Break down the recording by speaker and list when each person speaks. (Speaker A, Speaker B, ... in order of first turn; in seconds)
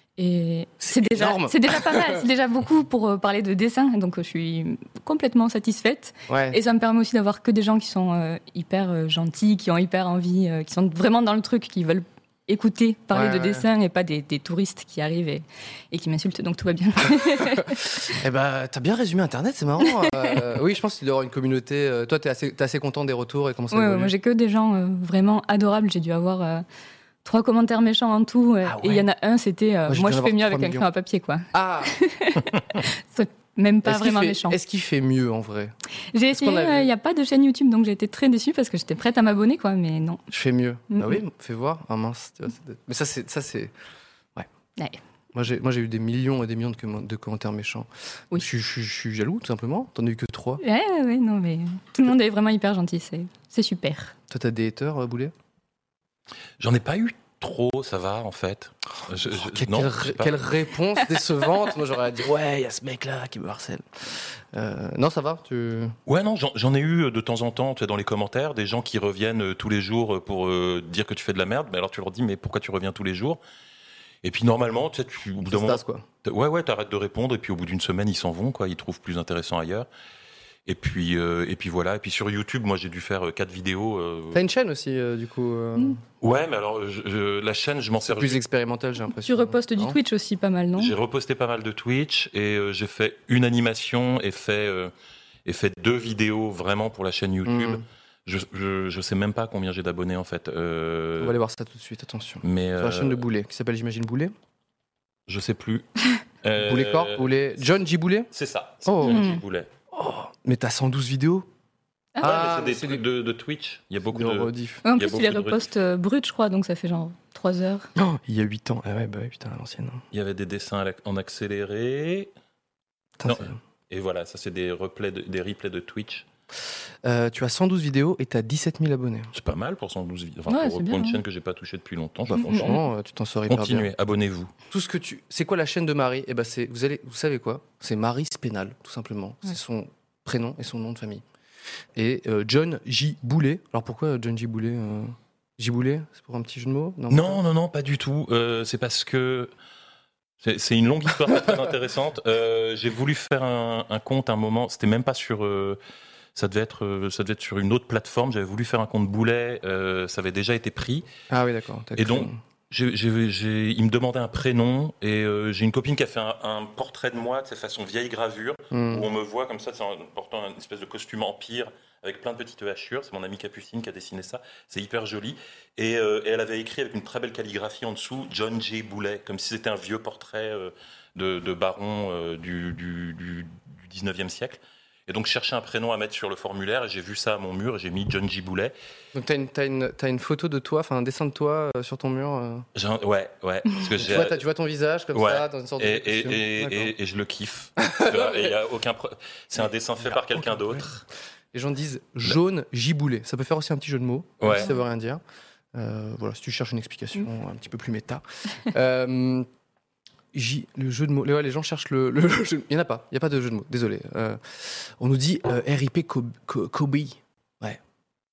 Speaker A: 0.2-18.0, 19.8-20.4, 23.7-26.6, 27.2-34.6, 36.1-40.2, 40.9-41.2, 50.6-54.1, 89.2-90.9, 109.0-109.4, 114.8-117.9, 130.5-131.2, 132.5-132.8
Speaker B: 0.8-2.2, 6.3-6.6, 13.1-13.6, 17.0-24.1, 28.6-29.1, 29.9-30.9, 31.5-31.9, 33.8-35.7, 36.3-36.9, 40.3-43.7, 45.3-50.6, 54.3-55.3, 59.3-66.0, 75.5-76.0, 84.3-86.0, 88.0-90.0, 97.5-97.8, 101.2-104.3, 106.6-108.3, 108.8-109.2, 109.9-111.5, 112.2-113.0, 114.1-114.8, 118.0-120.0, 123.2-123.6, 127.0-129.3, 132.3-133.9, 134.7-141.2, 141.9-147.4, 161.3-162.4, 168.7-169.1, 189.1-192.7, 193.9-196.9, 197.8-198.6, 199.6-200.9, 201.5-205.2, 205.7-209.5, 210.3-217.8
Speaker C: 56.6-60.4, 66.0-73.4, 74.2-79.9, 80.7-84.4, 86.2-88.4, 90.8-94.9, 95.5-101.4, 102.4-103.2, 105.3-105.9, 106.4-107.3, 108.3-109.7, 112.2-115.7, 120.1-122.3, 123.2-126.2, 129.3-132.8, 133.5-134.5, 147.1-149.5, 150.4-155.8, 156.3-161.1, 162.0-188.7, 192.7-194.4, 195.1-201.0, 204.4-204.7